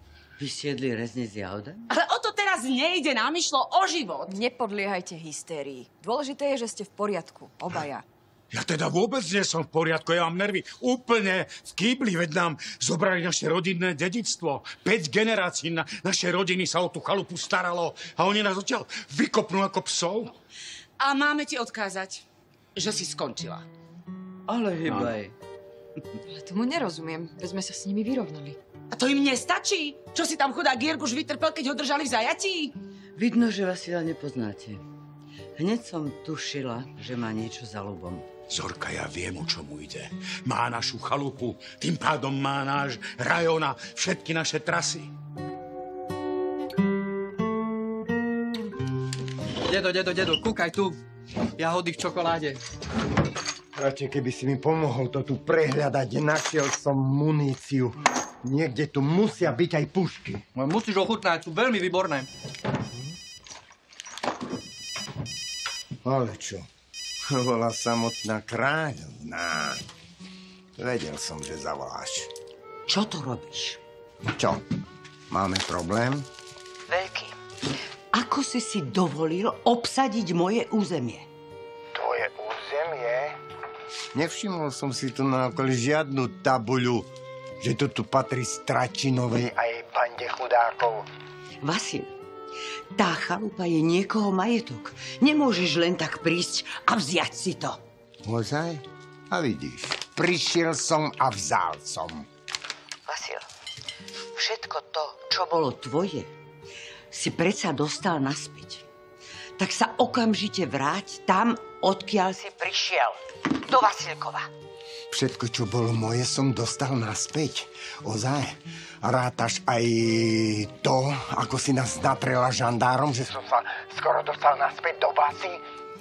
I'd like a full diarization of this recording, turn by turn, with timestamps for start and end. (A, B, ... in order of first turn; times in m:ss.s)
0:00.4-0:01.8 A
0:01.9-0:04.4 B
0:04.3-0:08.0 C
0:08.5-0:20.3 D
0:21.0-0:22.2 B
0:22.8-0:23.6 B
0:24.5-0:25.3 A
0:24.8-0:25.1 D
0:26.3-0:28.6 C
0:28.9-0:32.7 B
0:33.2-0:34.8 A
0:35.6-0:38.2 A
0:38.5-0:45.1 D
0:49.8-0:50.9 E
0:51.7-0:52.2 E
0:53.7-1:00.4 F
1:00.6-1:02.2 E
1:06.0-1:06.7 F
1:07.2-1:09.8 F
1:10.8-1:12.3 F
1:12.9-1:13.8 A
1:14.3-1:14.6 F
1:15.3-1:16.2 F
1:16.9-1:17.4 A
1:18.1-1:21.3 A
1:21.9-1:23.4 F
1:24.1-1:27.1 F
1:27.6-1:31.0 F
1:31.6-1:32.1 A
1:32.9-1:37.8 A
1:38.2-1:42.2 F
1:43.1-1:43.5 A
1:44.3-1:46.3 A
1:47.1-1:48.8 A
1:49.6-1:54.5 A
1:55.1-2:05.6 F